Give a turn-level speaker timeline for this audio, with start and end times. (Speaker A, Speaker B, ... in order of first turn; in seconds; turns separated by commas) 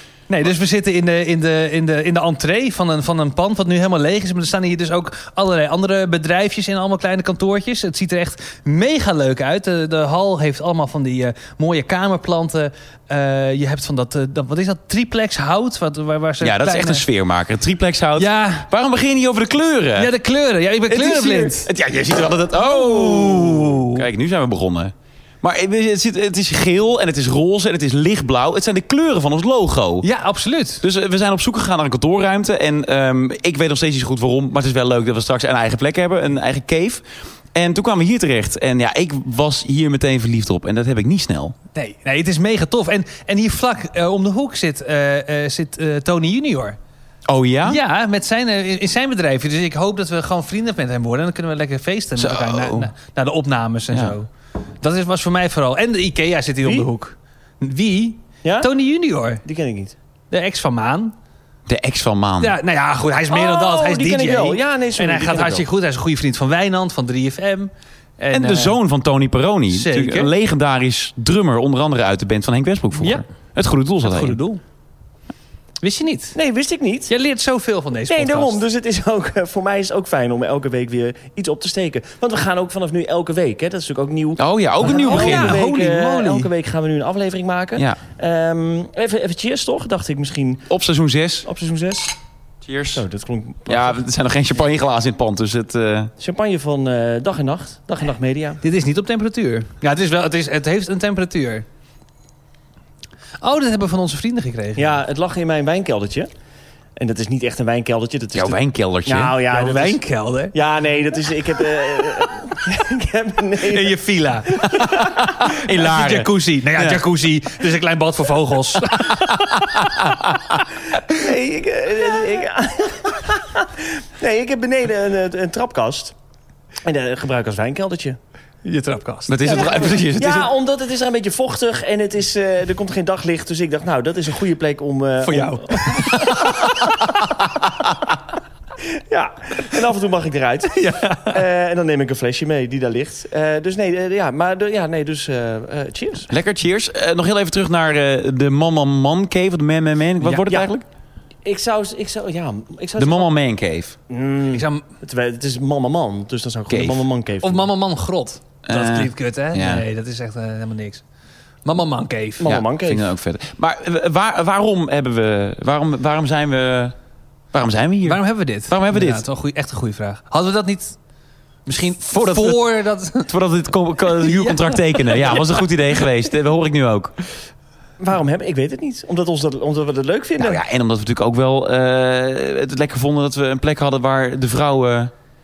Speaker A: 0.3-17.0, Speaker B: 16.4-20.1, Speaker A: 18.2-18.7, Speaker A: 19.9-21.7, Speaker B: 20.9-30.1, Speaker A: 22.6-24.0, Speaker A: 30.0-30.8, Speaker B: 30.8-41.5, Speaker A: 41.7-46.8, Speaker B: 47.3-47.8, Speaker A: 47.6-54.3, Speaker B: 52.2-52.9, Speaker A: 54.8-59.4, Speaker C: 58.4-58.7, Speaker C: 59.4-59.9, Speaker A: 60.3-61.1, Speaker B: 61.7-62.6, Speaker A: 62.4-68.8, Speaker C: 63.3-65.6, Speaker B: 68.3-74.4, Speaker A: 69.7-70.3, Speaker A: 73.0-73.2, Speaker A: 74.0-74.6, Speaker A: 75.8-76.4, Speaker C: 76.3-77.1, Speaker A: 77.1-78.6, Speaker C: 78.1-90.7, Speaker B: 84.4-85.5, Speaker A: 84.9-86.5, Speaker B: 90.7-91.5, Speaker C: 91.5-92.1, Speaker B: 92.7-93.0, Speaker C: 93.0-94.0, Speaker B: 93.7-96.1, Speaker C: 96.2-98.6, Speaker A: 98.6-101.7, Speaker A: 103.4-105.0, Speaker C: 104.8-106.3, Speaker C: 107.0-110.0, Speaker B: 108.3-109.4, Speaker A: 109.5-110.5, Speaker C: 110.5-114.0, Speaker A: 113.7-115.1, Speaker C: 114.5-115.0, Speaker B: 114.8-117.0, Speaker A: 115.7-119.6, Speaker B: 119.3-120.5, Speaker C: 121.1-126.1, Speaker C: 126.8-128.2, Speaker A: 128.6-130.0, Speaker B: 129.3-130.5, Speaker C: 129.5-136.6, Speaker A: 135.2-136.9, Speaker C: 139.1-146.3, Speaker A: 140.8-141.4, Speaker B: 146.3-150.8, Speaker C: 150.3-150.7, Speaker C: 151.4-153.3, Speaker B: 153.0-153.9, Speaker C: 154.1-157.7, Speaker A: 154.5-154.8, Speaker B: 156.7-157.0, Speaker A: 157.4-161.0, Speaker B: 158.7-159.8, Speaker A: 161.7-162.5, Speaker C: 162.4-163.1, Speaker B: 162.4-166.9, Speaker B: 167.5-169.2, Speaker A: 168.1-171.0, Speaker A: 171.7-173.3, Speaker B: 172.1-172.7, Speaker B: 173.2-177.2, Speaker A: 174.1-175.6, Speaker C: 178.0-180.6, Speaker B: 180.4-185.1